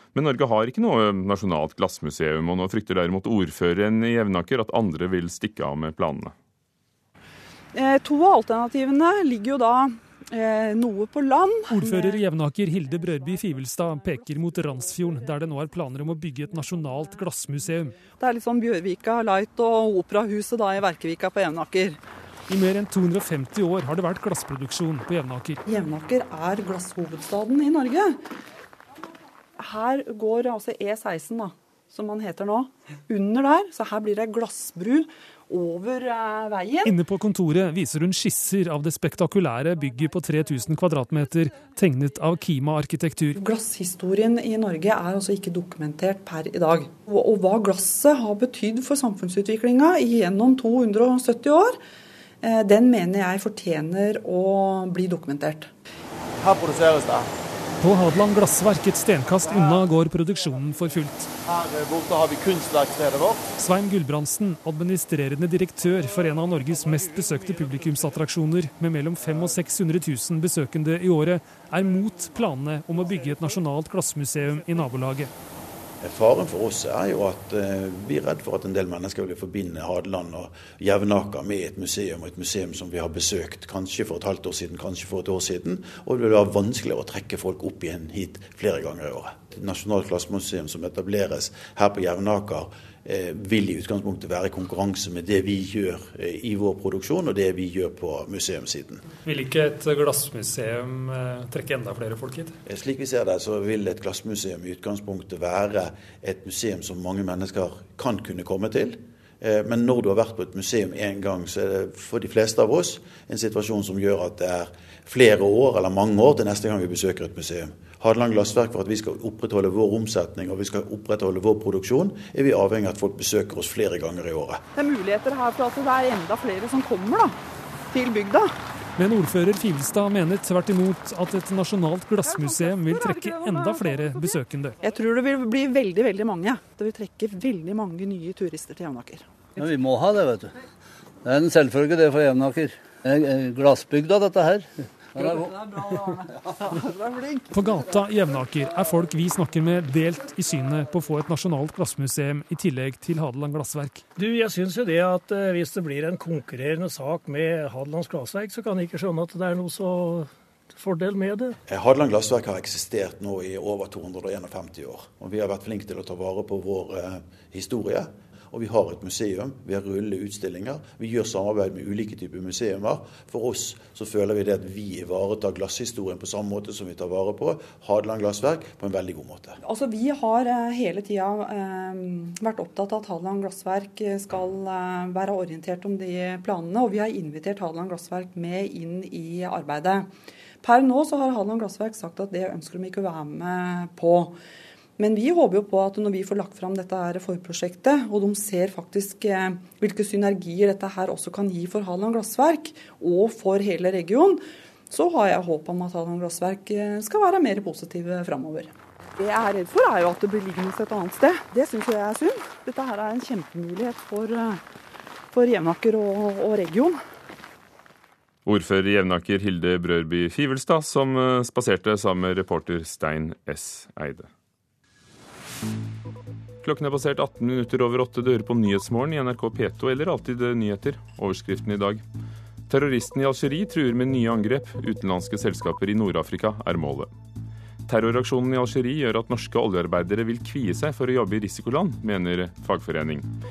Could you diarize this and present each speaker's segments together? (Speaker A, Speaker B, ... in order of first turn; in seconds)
Speaker A: 0.1-6.3, 218.4-224.3, 226.6-232.0, 232.7-237.1, 237.8-243.3
Speaker B: 7.7-12.2, 18.2-22.0, 25.7-28.2, 29.6-36.9, 43.4-51.8, 52.4-55.7, 124.8-127.4, 127.9-128.5, 132.2-139.3, 146.9-147.4, 179.6-190.1, 190.6-194.4, 195.0-214.6, 215.3-217.0
Speaker C: 11.7-18.0, 22.5-25.6, 36.8-43.4, 57.8-61.3, 63.6-75.3, 99.2-102.5, 129.0-134.8, 147.5-154.0
Speaker D: 56.5-57.1, 61.9-63.2
Speaker E: 76.0-99.0, 102.6-124.6, 161.7-179.6
Speaker F: 139.6-140.5, 141.2-145.4
Speaker G: 154.2-161.6